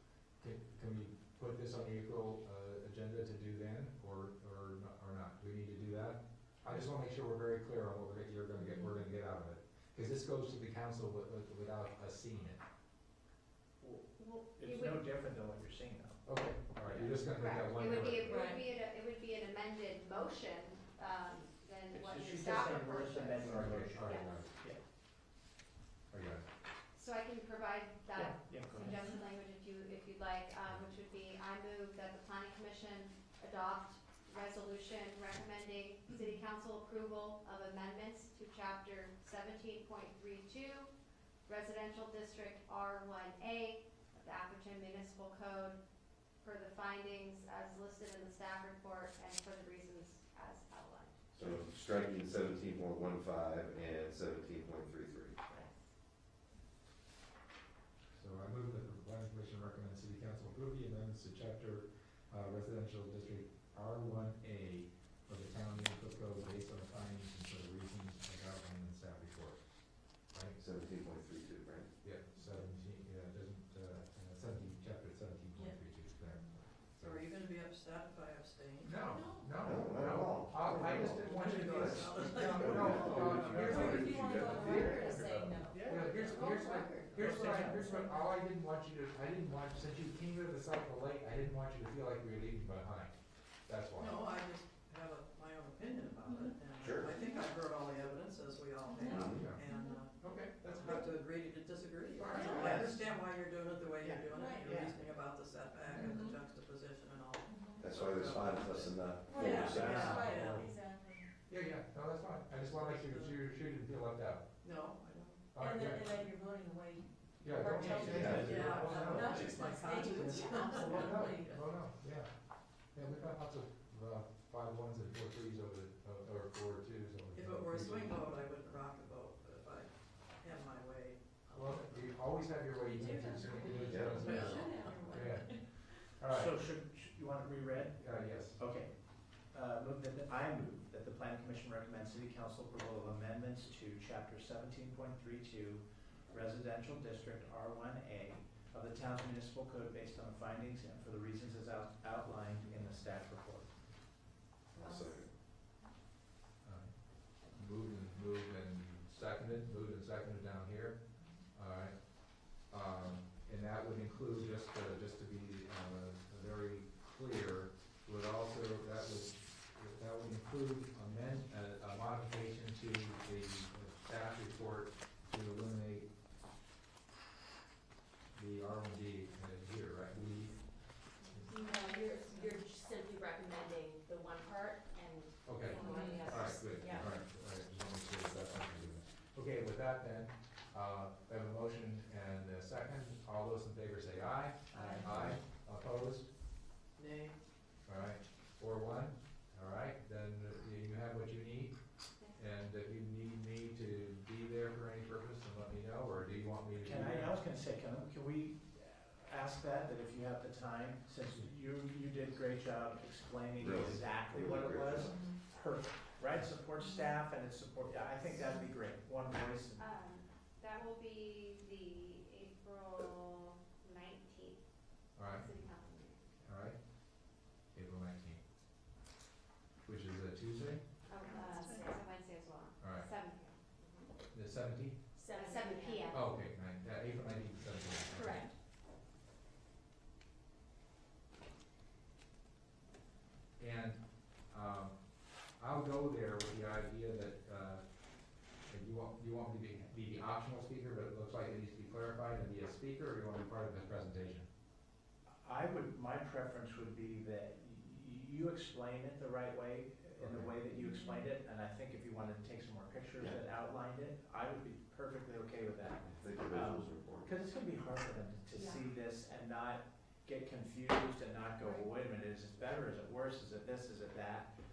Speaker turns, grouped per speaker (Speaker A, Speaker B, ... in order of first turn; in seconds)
Speaker A: 0.4-12.6, 16.2-18.5, 23.5-24.5, 26.1-26.4, 58.1-69.6, 70.3-70.6, 72.0-77.2, 78.8-94.2, 99.3-99.6, 100.2-101.1, 102.2-102.8, 109.6-110.7, 111.5-114.4, 115.5-116.3, 117.4-119.6, 120.6-122.3, 122.9-128.2, 131.5-135.6, 136.2-136.5, 138.0-138.6, 156.6-156.9, 157.5-161.0, 161.5-161.9, 162.7-176.1, 178.3-180.6, 181.2-181.5, 185.4-196.3, 197.8-201.8, 202.3-207.4, 225.2-225.4, 226.4-226.8, 227.7-228.4, 229.8-230.8, 232.8-233.1, 234.3-235.0, 236.1-238.5, 243.6-244.9, 245.6-247.8, 248.7-254.5, 260.2-260.5
Speaker B: 8.6-8.9, 18.3-18.6, 79.0-79.5, 83.7-88.3, 96.3-96.6, 97.2-97.5, 98.8-100.0, 102.3-102.8, 104.3-104.7, 105.9-106.4, 107.5-107.8, 109.3-111.3, 115.6-121.6, 132.8-135.6, 154.8-155.1, 181.4-187.1, 231.3-232.0, 233.8-234.1, 235.1-236.2, 260.9-261.2
Speaker C: 13.8-16.2, 16.8-17.1, 21.9-24.8, 28.1-29.0, 82.9-83.8, 84.6-86.4, 87.1-87.9, 102.4-103.0, 104.0-104.9, 117.8-119.5, 136.3-138.0, 138.6-138.9, 139.5-153.7, 194.8-195.0, 206.7-219.8, 255.4-274.5
Speaker D: 14.2-15.0, 17.1-24.4, 26.9-40.9, 41.5-45.8, 46.4-51.2, 194.8-195.2, 219.8-224.6, 225.2-226.3, 231.1-233.6, 235.3-236.3, 238.1-238.4, 268.5-268.8
Speaker E: 51.3-55.5, 70.6-71.9, 79.6-84.5, 96.7-97.1, 99.0-99.5, 107.8-110.3, 118.0-118.5, 133.8-134.8, 154.7-155.3, 213.6-215.3, 266.0-267.3
Speaker F: 77.0-79.0, 81.1-84.9, 94.0-110.7, 112.6-113.3, 114.6-115.4, 117.8-121.4, 127.3-132.1, 134.0-135.5, 197.0-197.3